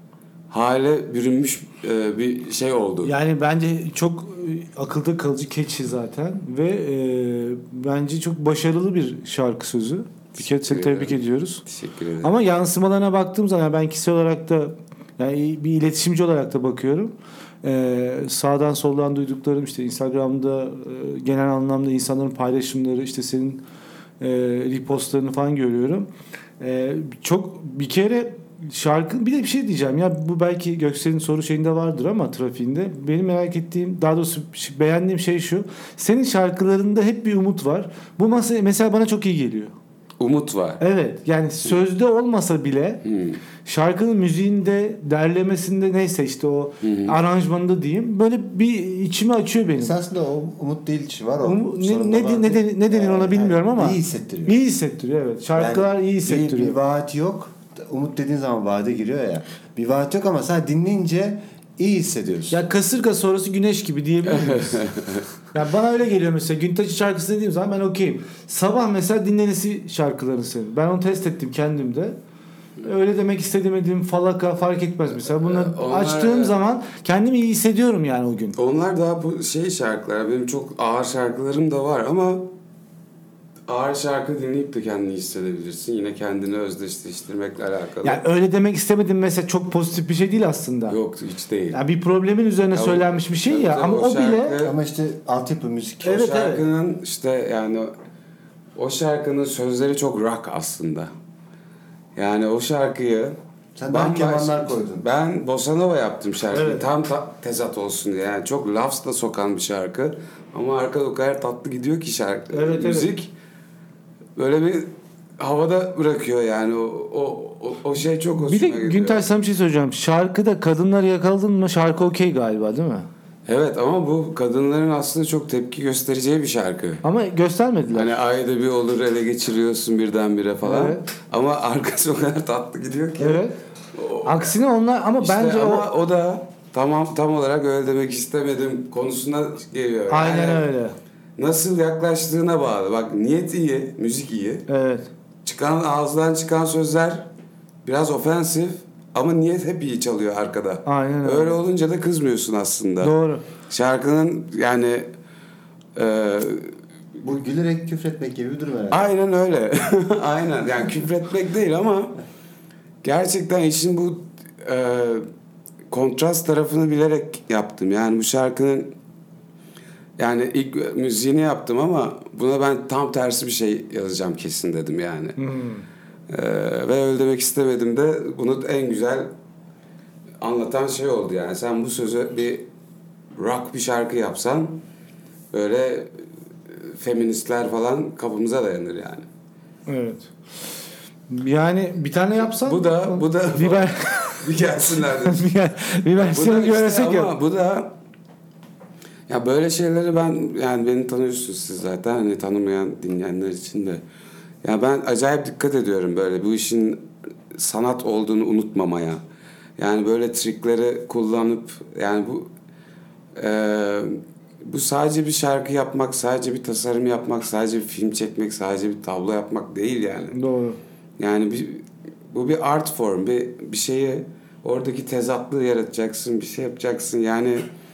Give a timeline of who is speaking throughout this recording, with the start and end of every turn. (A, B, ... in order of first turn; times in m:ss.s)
0:00.5-0:03.1 A
0:03.0-0:11.6 B
0:10.4-0:12.3 A
0:12.2-0:23.6 B
0:24.2-0:39.7 B
0:40.2-0:40.8 A
0:40.8-0:43.0 B
0:43.0-0:43.4 A
0:43.6-0:49.9 B
0:46.8-0:47.2 A
0:49.8-0:54.6 C
0:51.4-0:56.8 B
0:55.6-1:02.6 C
1:02.5-1:04.8 B
1:04.2-1:05.2 A
1:05.5-1:12.2 B
1:12.8-1:18.6 B
1:15.2-1:16.6 A
1:18.5-1:22.5 A
1:23.7-1:28.2 A
1:28.0-1:31.0 B
1:30.9-1:31.8 A
1:31.7-1:34.6 B
1:32.7-1:34.7 A
1:34.6-1:36.2 C
1:36.0-1:36.6 B
1:36.0-1:37.9 A
1:38.8-1:41.1 A
1:42.2-1:43.4 A
1:43.8-1:45.0 C
1:43.9-1:53.3 A
1:46.5-1:46.9 B
1:52.5-1:53.1 B
1:54.4-1:59.2 A
1:58.4-2:03.1 B
2:03.4-2:07.0 A
2:07.0-2:08.1 B
2:07.9-2:14.5 A
2:10.6-2:11.0 B
2:13.2-2:13.5 B
2:14.2-2:15.9 B
2:15.2-2:20.7 A
2:20.1-2:21.0 B
2:21.4-2:24.6 A
2:24.7-2:25.1 B
2:25.4-2:27.3 A
2:27.8-2:33.2 A
2:30.8-2:31.6 B
2:33.0-2:33.4 B
2:33.7-2:35.1 A
2:35.9-2:36.7 A
2:37.2-2:39.1 C
2:38.9-2:42.2 A
2:43.0-2:45.3 A
2:45.9-2:48.9 A
2:50.2-2:55.4 A
2:55.4-2:55.8 B
2:56.3-2:59.3 A
3:00.4-3:02.6 A
3:03.3-3:04.8 A
3:05.5-3:06.2 A
3:06.7-3:09.3 A
3:09.9-3:10.3 B
3:11.3-3:17.3 B
3:12.4-3:15.5 A
3:16.1-3:17.9 A
3:19.3-3:24.0 A
3:24.6-3:29.2 A
3:29.8-3:32.5 A
3:33.4-3:40.4 A
3:40.3-3:40.8 B
3:41.2-3:47.6 A